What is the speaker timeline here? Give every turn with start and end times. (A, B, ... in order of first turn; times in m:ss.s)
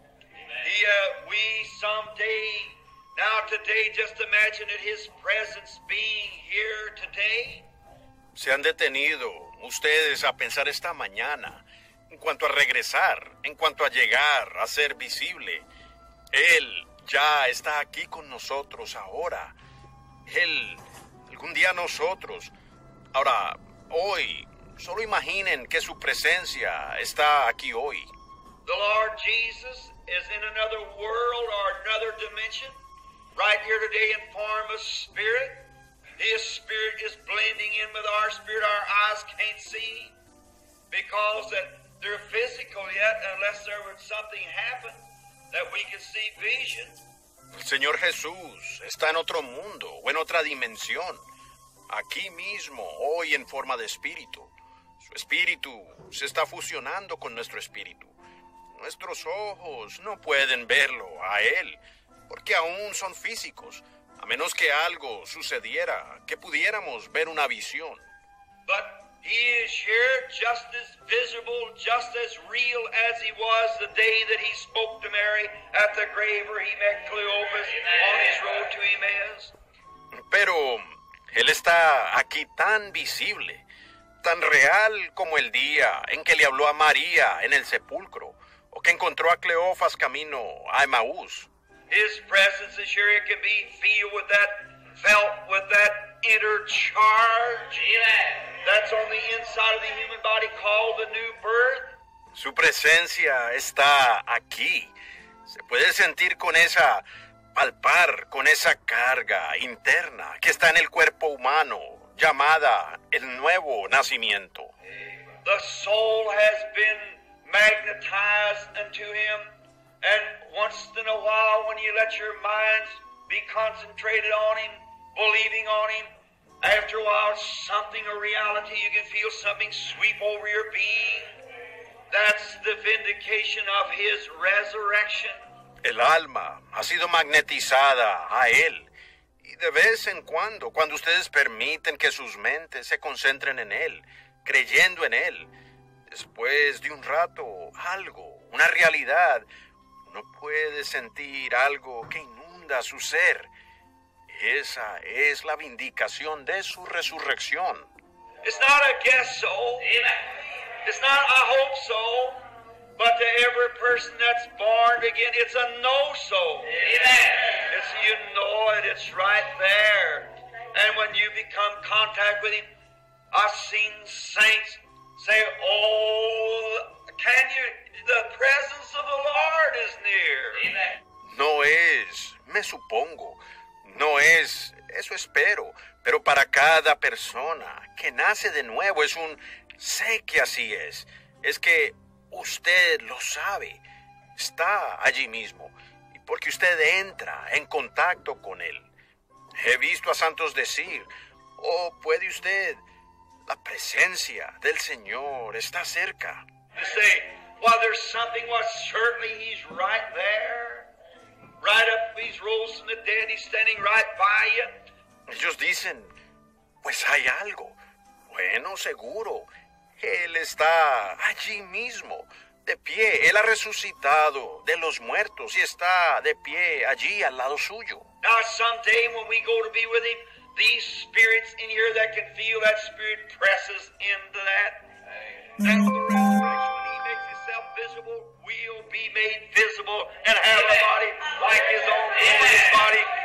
0:00.5-0:07.7 A
0:08.3-0:15.7 B
0:16.3-0:19.6 B
0:20.2-0:22.5 B
0:23.1-0:28.1 B
0:28.6-0:32.8 A
0:33.3-0:40.2 A
0:40.9-0:47.0 A
0:47.6-0:51.2 B
0:51.9-0:58.2 B
0:58.8-1:08.0 B
1:08.7-1:19.5 A
1:20.3-1:23.6 B
1:24.2-1:31.5 B
1:31.9-1:37.9 A
1:38.6-1:42.0 A
1:42.3-1:44.9 B
1:45.5-1:47.0 B
1:47.5-1:54.7 B
1:55.4-1:59.5 A
2:00.0-2:06.1 A
2:06.6-2:11.4 A
2:12.1-2:15.4 A
2:15.8-2:25.5 B
2:26.1-2:29.5 B
2:30.0-2:33.5 B
2:34.3-2:37.9 B
2:38.4-2:40.0 A
2:40.8-2:42.4 A
2:43.0-2:52.7 A
2:53.3-3:00.7 A
3:01.2-3:13.8 B
3:14.4-3:18.9 B
3:19.6-3:22.8 B
3:23.4-3:26.4 B
3:26.7-3:30.9 A
3:31.6-3:34.8 A
3:35.3-3:36.1 B
3:36.8-3:37.8 B
3:38.3-3:48.0 B
3:48.2-3:54.9 A
3:55.6-4:03.1 A